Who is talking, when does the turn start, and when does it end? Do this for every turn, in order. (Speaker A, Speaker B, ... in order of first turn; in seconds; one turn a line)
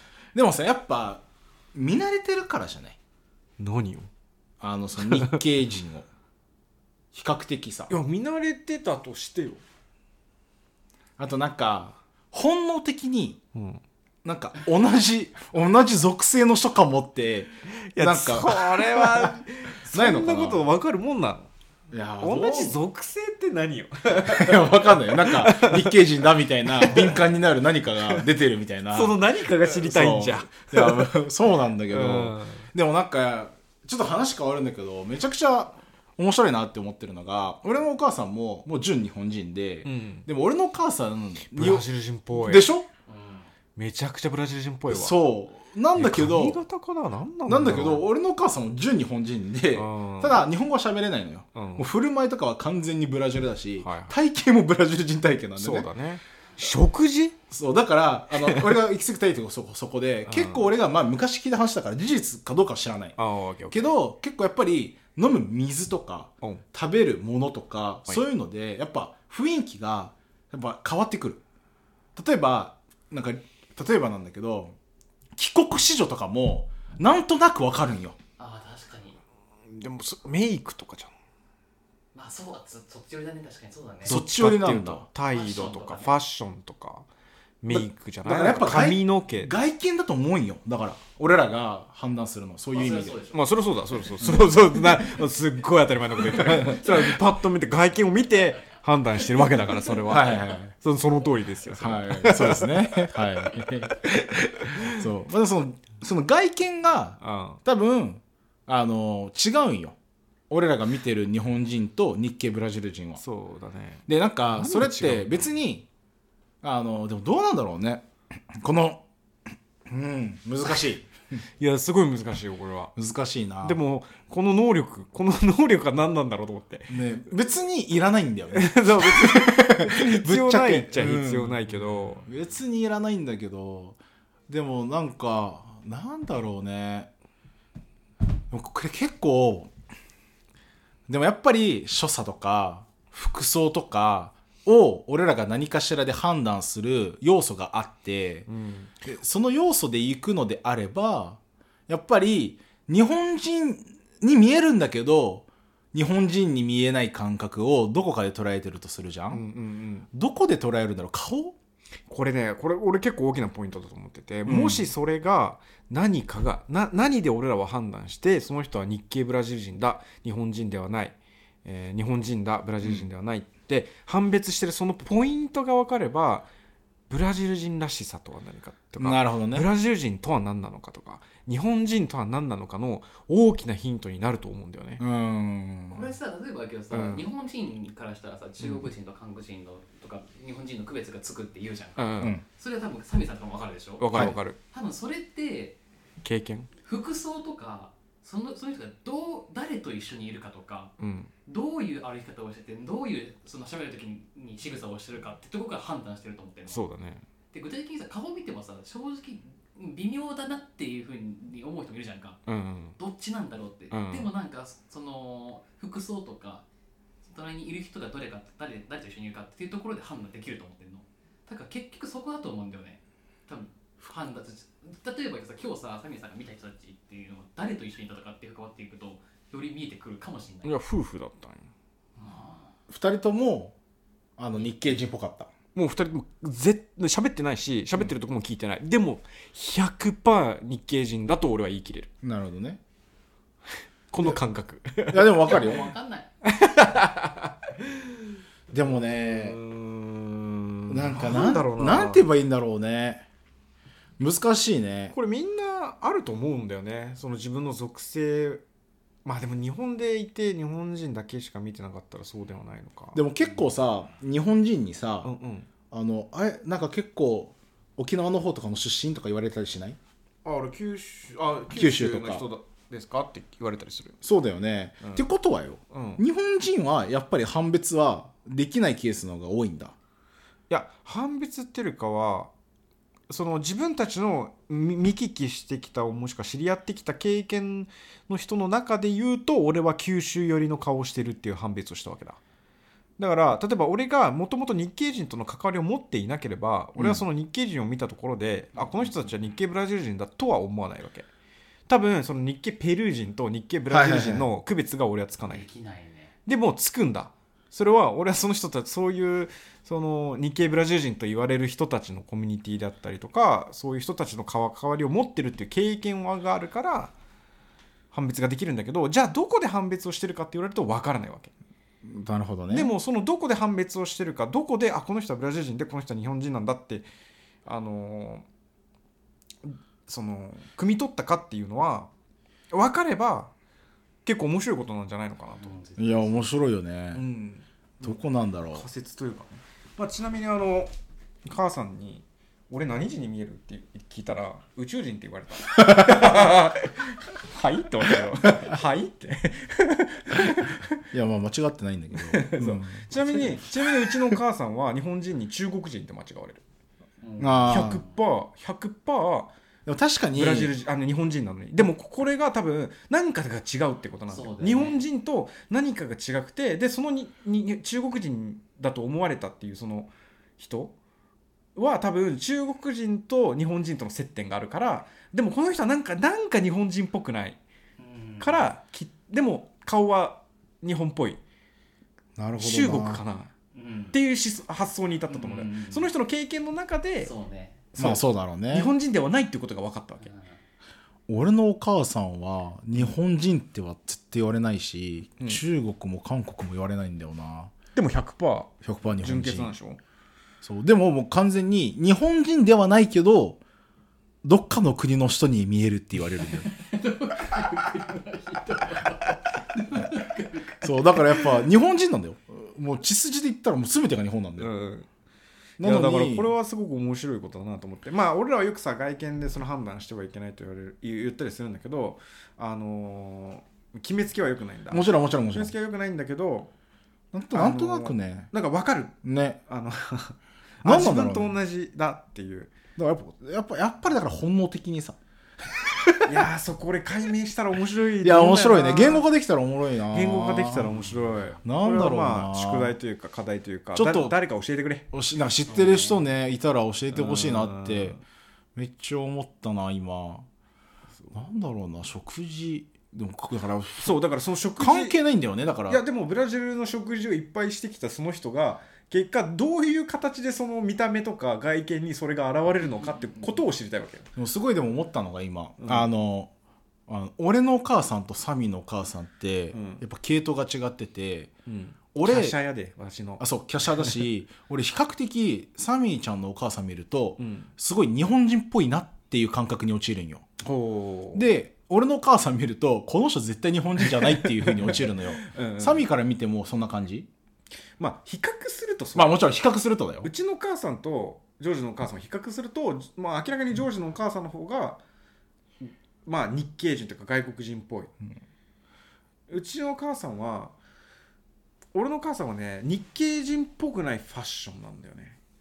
Speaker A: 0.3-3.0
Speaker B: 3.6-4.1
Speaker A: 4.6-6.1
Speaker B: 5.0-5.4
Speaker A: 7.1-8.0
Speaker B: 7.9-9.6
Speaker A: 11.2-13.4
Speaker B: 13.5-13.8
Speaker A: 14.2-20.7
Speaker B: 17.8-21.5
Speaker A: 21.9-22.8
Speaker B: 22.2-26.0
Speaker A: 24.1-42.9
Speaker B: 26.6-27.3
Speaker B: 28.9-31.2
Speaker B: 31.8-32.7
Speaker B: 39.8-40.2
Speaker B: 41.5-42.7
Speaker C: 43.1-43.5
Speaker B: 43.8-45.2
Speaker A: 44.9-46.6
Speaker B: 45.9-48.1
Speaker A: 47.5-55.9
Speaker B: 49.7-50.4
Speaker B: 51.5-51.9
Speaker B: 53.8-54.1
Speaker B: 55.6-57.4
Speaker A: 57.5-63.2
Speaker B: 58.3-58.8
Speaker B: 60.2-60.7
Speaker B: 63.2-63.9
Speaker A: 63.7-71.4
Speaker A: 72.2-74.7
Speaker A: 75.3-78.2
Speaker C: 78.4-79.2
Speaker B: 79.7-81.1
Speaker C: 82.1-84.2
Speaker A: 84.0-85.1
Speaker B: 84.0-87.0
Speaker C: 85.3-86.1
Speaker B: 87.6-89.5
Speaker A: 87.7-93.2
Speaker C: 92.7-93.4
Speaker B: 93.3-103.1
Speaker A: 94.2-94.6
Speaker C: 96.4-96.7
Speaker A: 100.0-100.7
Speaker A: 101.7-110.0
Speaker B: 104.7-105.0
Speaker B: 107.2-107.6
Speaker A: 110.5-113.2
Speaker B: 113.2-115.5
Speaker A: 114.1-115.9
Speaker A: 116.6-119.0
Speaker A: 119.9-121.1
Speaker B: 121.6-122.9
Speaker A: 123.0-123.8
Speaker B: 123.6-127.0
Speaker A: 126.9-137.1
Speaker B: 128.5-132.3
Speaker A: 138.5-139.7
Speaker A: 141.1-148.5
Speaker B: 148.5-148.9
Speaker A: 149.0-159.4
Speaker B: 159.3-160.1
Speaker A: 160.1-161.6
Speaker B: 162.1-176.5
Speaker A: 164.4-164.9
Speaker A: 172.8-173.1
Speaker B: 177.1-185.0
Speaker A: 179.0-179.7
Speaker A: 185.0-186.1
Speaker C: 185.9-194.1
Speaker B: 186.9-187.3
Speaker B: 191.9-192.3
Speaker A: 192.2-192.4
Speaker B: 194.0-194.6
Speaker A: 194.1-194.4
Speaker C: 194.7-195.8
Speaker B: 196.2-196.7
Speaker C: 196.8-200.9
Speaker B: 201.0-201.3
Speaker C: 201.5-206.9
Speaker B: 206.7-207.2
Speaker C: 207.5-212.4
Speaker B: 212.5-213.0
Speaker C: 213.0-216.6
Speaker B: 213.9-214.3
Speaker C: 217.2-230.8
Speaker B: 230.6-231.7
Speaker C: 232.2-232.7
Speaker A: 232.9-233.8
Speaker A: 234.4-235.5
Speaker B: 235.7-242.1
Speaker A: 242.2-242.8
Speaker B: 244.1-245.6
Speaker A: 245.1-245.9
Speaker C: 245.5-246.3
Speaker B: 246.4-248.3
Speaker A: 248.7-249.6
Speaker B: 248.8-252.3
Speaker A: 250.9-253.2
Speaker A: 254.2-255.1
Speaker B: 255.1-258.6
Speaker B: 259.2-263.2
Speaker A: 263.1-265.3
Speaker C: 263.4-263.7
Speaker B: 265.2-265.7
Speaker A: 265.9-270.0
Speaker B: 270.4-274.1
Speaker A: 271.7-272.5
Speaker A: 274.2-279.9
Speaker B: 275.9-276.2
Speaker B: 280.7-282.5
Speaker B: 283.3-292.4
Speaker B: 293.2-301.3
Speaker A: 297.0-297.2
Speaker C: 298.7-299.4
Speaker B: 301.9-305.6
Speaker A: 303.9-304.5
Speaker C: 305.4-306.3
Speaker B: 306.4-317.1
Speaker B: 318.1-321.5
Speaker A: 322.0-322.9
Speaker B: 322.7-327.1
Speaker B: 327.6-328.4
Speaker B: 329.6-332.1
Speaker B: 332.7-333.5
Speaker B: 334.2-335.8
Speaker C: 335.6-336.4
Speaker A: 336.0-337.2
Speaker B: 337.1-338.2
Speaker A: 338.0-338.9
Speaker B: 338.7-340.9
Speaker B: 341.5-350.9
Speaker A: 351.1-353.7
Speaker B: 352.2-356.6
Speaker C: 357.2-358.1
Speaker A: 357.4-358.0
Speaker B: 357.6-359.5
Speaker A: 359.9-360.7
Speaker B: 360.3-370.9
Speaker C: 364.3-365.0
Speaker B: 371.8-377.6
Speaker C: 378.0-378.7
Speaker B: 378.4-381.4
Speaker A: 382.4-383.2
Speaker B: 382.6-383.5
Speaker C: 383.7-384.1
Speaker B: 384.1-387.3
Speaker C: 385.3-386.1
Speaker C: 387.2-387.9
Speaker B: 387.9-390.3
Speaker A: 387.9-388.9
Speaker C: 390.2-390.6
Speaker A: 391.3-397.7
Speaker B: 397.9-400.0
Speaker A: 398.8-399.7
Speaker A: 400.6-403.6
Speaker A: 404.4-406.7
Speaker C: 406.4-411.5
Speaker A: 410.8-414.7
Speaker B: 414.6-415.1
Speaker A: 415.8-416.5
Speaker B: 415.8-426.7
Speaker A: 424.9-425.7
Speaker A: 427.3-428.5
Speaker B: 427.5-429.1
Speaker A: 429.2-429.6
Speaker B: 429.7-432.7
Speaker A: 430.8-431.6
Speaker A: 432.9-435.2
Speaker A: 436.0-436.3
Speaker B: 436.2-439.3
Speaker A: 438.2-441.1
Speaker B: 440.1-445.1
Speaker A: 441.6-443.0
Speaker A: 443.9-444.4
Speaker A: 445.1-448.2
Speaker C: 445.7-446.3
Speaker B: 447.1-448.2
Speaker A: 448.8-450.4
Speaker A: 451.3-454.2
Speaker B: 454.0-455.2
Speaker A: 454.8-456.0
Speaker B: 455.9-464.3
Speaker C: 463.1-463.5
Speaker A: 464.4-466.5
Speaker B: 465.8-466.1
Speaker A: 467.1-471.5
Speaker B: 469.7-470.0
Speaker B: 471.7-473.4
Speaker A: 472.1-472.6
Speaker A: 473.4-480.5
Speaker B: 477.4-477.7
Speaker B: 480.6-481.5
Speaker A: 481.3-487.3
Speaker B: 484.0-486.0
Speaker B: 488.0-489.4
Speaker A: 489.1-490.3
Speaker B: 490.2-495.0
Speaker B: 495.8-498.1
Speaker B: 499.5-500.7
Speaker B: 501.9-505.4